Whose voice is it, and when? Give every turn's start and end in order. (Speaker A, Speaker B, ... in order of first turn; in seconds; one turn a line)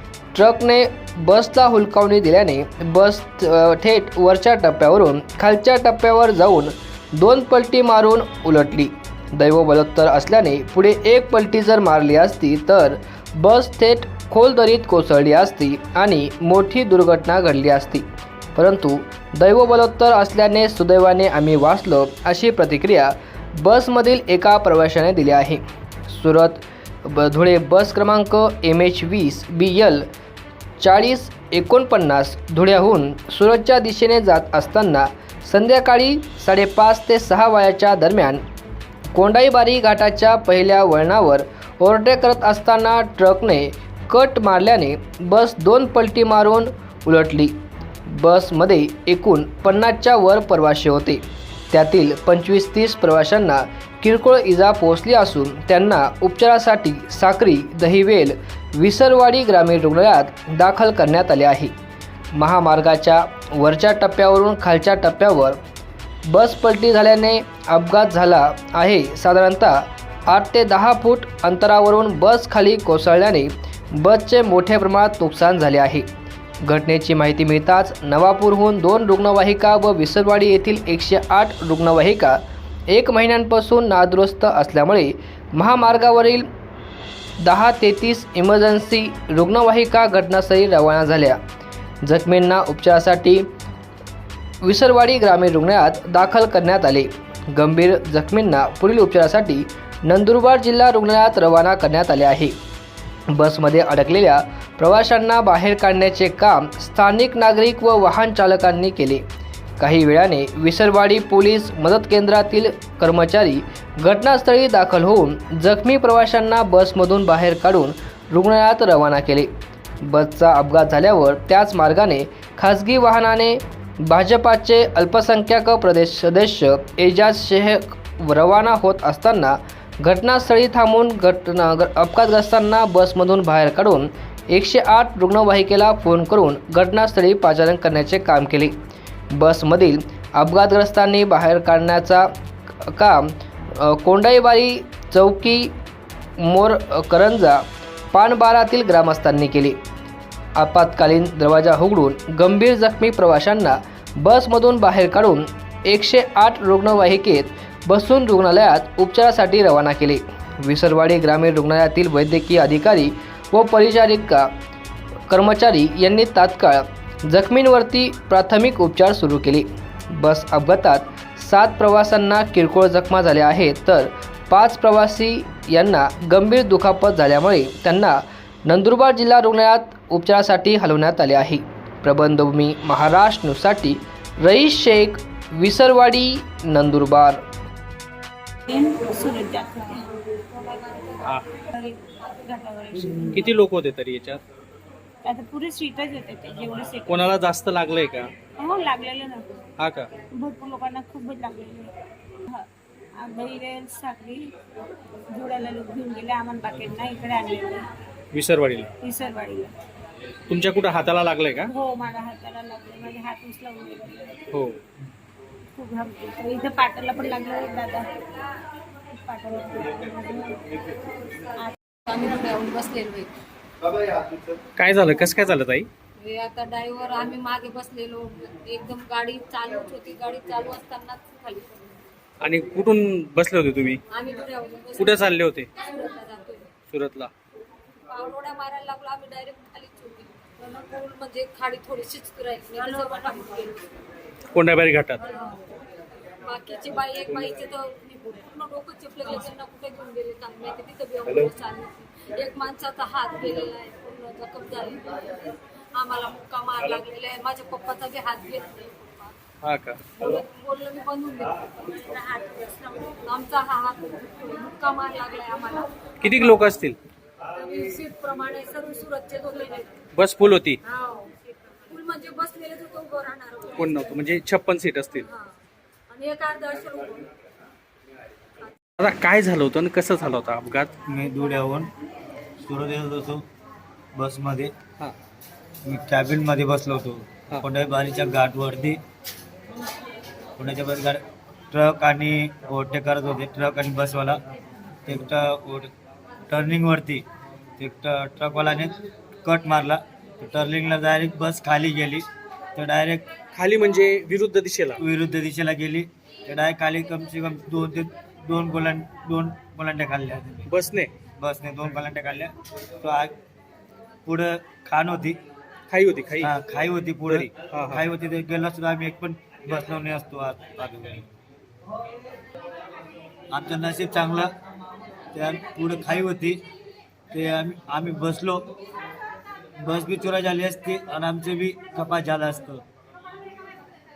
Speaker A: 0.3-18.0
Speaker A: 18.6-30.1
Speaker A: 30.8-38.4
Speaker A: 39.1-47.5
Speaker A: 48.1-61.7
Speaker A: 62.3-65.6
Speaker A: 66.3-76.1
Speaker A: 76.6-86.5
Speaker A: 87.4-91.4
Speaker A: 92.0-93.5
Speaker A: 94.6-102.5
Speaker A: 103.3-109.2
Speaker A: 109.8-119.5
Speaker A: 120.0-138.8
Speaker A: 139.3-142.3
Speaker A: 142.8-145.7
Speaker A: 146.4-149.8
Speaker A: 150.6-164.5
Speaker A: 165.3-187.4
Speaker B: 188.7-190.1
Speaker B: 190.7-191.1
Speaker B: 191.7-193.4
Speaker C: 193.3-194.4
Speaker B: 195.2-197.2
Speaker C: 197.1-198.3
Speaker B: 198.5-199.6
Speaker C: 199.8-200.1
Speaker B: 200.2-204.6
Speaker B: 205.3-207.9
Speaker C: 208.3-208.9
Speaker B: 209.0-209.7
Speaker C: 210.5-211.7
Speaker B: 211.7-214.4
Speaker C: 214.5-214.8
Speaker B: 215.8-218.4
Speaker B: 219.1-220.9
Speaker D: 222.1-223.3
Speaker C: 224.8-225.9
Speaker D: 226.2-232.0
Speaker C: 232.4-234.0
Speaker D: 234.1-236.7
Speaker C: 235.0-235.7
Speaker C: 236.9-237.3
Speaker D: 238.1-243.8
Speaker C: 244.5-245.2
Speaker D: 245.2-245.6
Speaker D: 246.4-259.4
Speaker C: 259.6-260.1
Speaker D: 260.1-265.9
Speaker C: 266.2-267.0
Speaker D: 267.5-270.0
Speaker C: 270.1-270.8
Speaker D: 270.8-274.2
Speaker C: 273.8-275.2
Speaker D: 275.2-275.5
Speaker D: 276.1-277.3
Speaker C: 279.0-280.9
Speaker E: 281.1-281.9
Speaker E: 282.6-283.4
Speaker E: 284.1-284.7
Speaker E: 285.9-289.0
Speaker E: 290.6-294.4
Speaker E: 295.1-295.9
Speaker E: 296.5-297.2
Speaker E: 297.8-303.3
Speaker C: 303.5-305.0
Speaker E: 305.0-310.6
Speaker C: 310.7-311.2
Speaker E: 311.3-313.3
Speaker E: 314.2-315.4
Speaker C: 315.9-316.5
Speaker E: 316.4-321.3
Speaker C: 317.3-318.0
Speaker E: 323.5-324.5
Speaker E: 325.3-326.6
Speaker E: 327.3-328.7
Speaker E: 329.8-332.8